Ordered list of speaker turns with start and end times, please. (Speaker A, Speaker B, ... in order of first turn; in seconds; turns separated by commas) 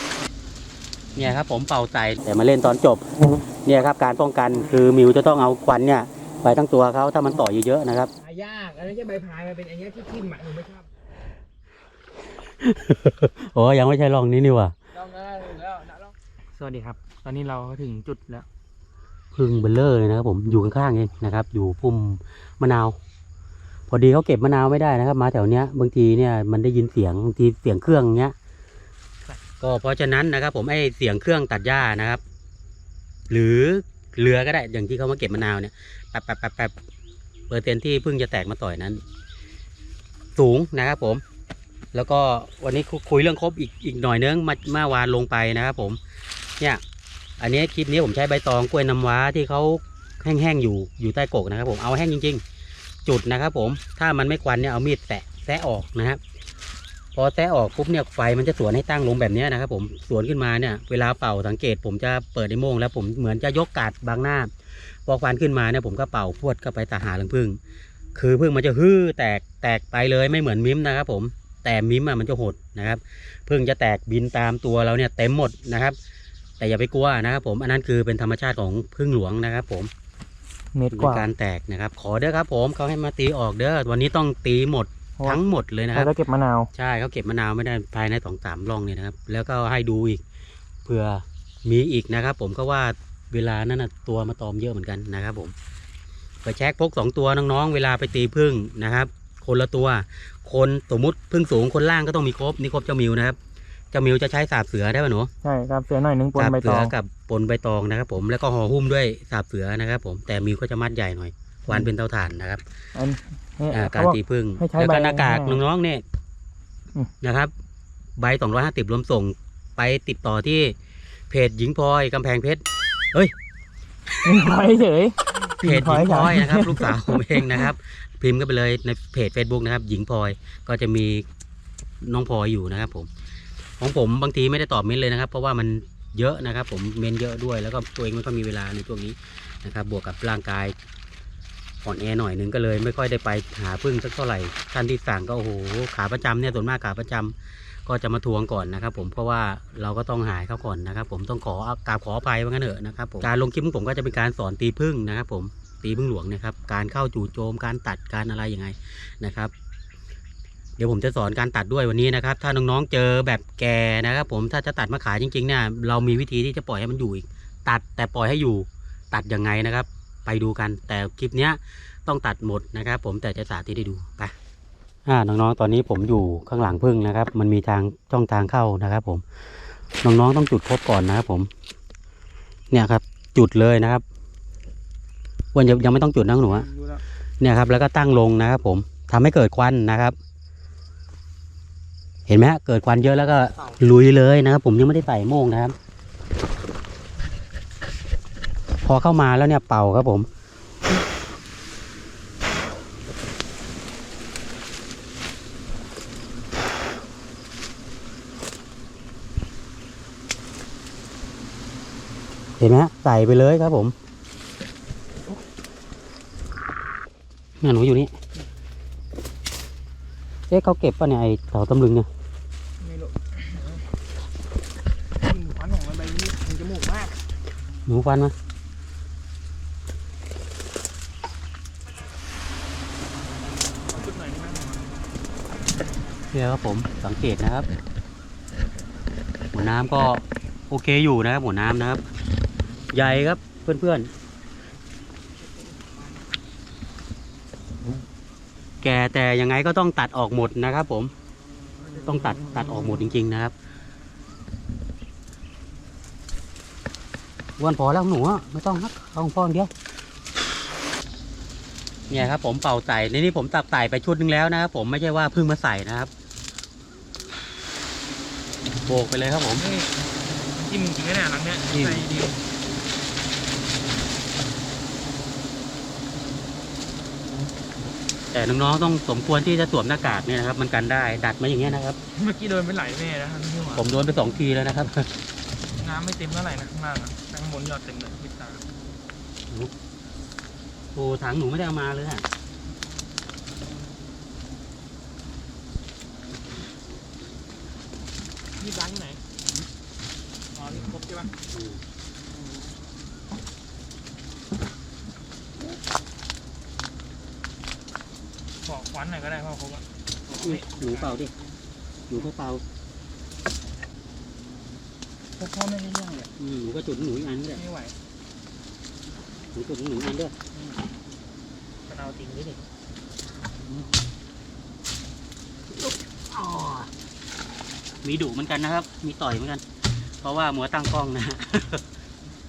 Speaker A: 1.1-3.0, Speaker A: 3.6-8.1, Speaker B: 8.2-10.9, Speaker A: 12.6-14.7, Speaker B: 14.9-18.4, Speaker A: 19.4-22.9, Speaker A: 23.9-28.3, Speaker A: 29.6-32.2, Speaker A: 33.3-36.8, Speaker A: 37.5-39.0, Speaker A: 40.4-41.2, Speaker A: 41.9-46.0, Speaker A: 47.4-52.4, Speaker A: 53.0-56.2, Speaker A: 57.1-64.5, Speaker A: 65.0-67.6, Speaker A: 68.1-76.0, Speaker A: 76.6-79.9, Speaker B: 80.7-81.3, Speaker A: 80.9-86.1, Speaker B: 85.9-86.7, Speaker A: 86.7-90.2, Speaker A: 90.8-95.5, Speaker A: 96.4-103.4, Speaker A: 103.9-105.3, Speaker B: 105.4-106.9, Speaker A: 106.3-112.6, Speaker B: 112.9-115.6, Speaker A: 113.7-116.0, Speaker A: 117.2-117.5, Speaker A: 118.2-120.7, Speaker A: 121.3-123.3, Speaker B: 124.2-127.7, Speaker A: 125.6-131.2, Speaker A: 132.0-133.1, Speaker A: 133.8-140.7, Speaker A: 141.8-147.3, Speaker A: 147.8-159.5, Speaker A: 160.8-174.3, Speaker A: 175.1-179.2, Speaker A: 180.0-181.5, Speaker A: 182.7-184.0, Speaker A: 185.5-186.7, Speaker B: 186.5-187.0, Speaker A: 187.4-190.2, Speaker A: 192.3-195.7, Speaker A: 198.8-200.3, Speaker A: 212.6-213.9, Speaker A: 217.6-218.1, Speaker A: 220.5-222.1, Speaker B: 222.8-223.9, Speaker B: 225.2-227.2, Speaker A: 227.8-228.3, Speaker B: 233.9-234.9, Speaker A: 236.3-237.7, Speaker A: 239.5-242.0, Speaker A: 242.9-244.1, Speaker A: 248.8-251.1, Speaker A: 252.0-253.5, Speaker A: 257.6-259.7, Speaker A: 262.1-266.1, Speaker A: 268.9-269.6, Speaker B: 269.6-270.0, Speaker B: 270.6-272.4, Speaker A: 271.7-272.0, Speaker A: 278.3-282.0, Speaker B: 282.1-283.9, Speaker A: 283.8-285.1, Speaker B: 285.8-288.6, Speaker A: 290.9-292.2, Speaker B: 298.6-299.2, Speaker B: 300.5-301.3, Speaker A: 301.5-301.8, Speaker B: 308.6-311.1, Speaker A: 310.4-311.3, Speaker A: 312.1-312.6, Speaker B: 315.4-316.3, Speaker A: 316.4-317.6, Speaker B: 317.6-317.9, Speaker A: 319.5-320.3, Speaker B: 320.5-320.9, Speaker B: 321.9-322.6, Speaker A: 325.7-326.9, Speaker A: 328.0-329.6, Speaker A: 330.2-331.8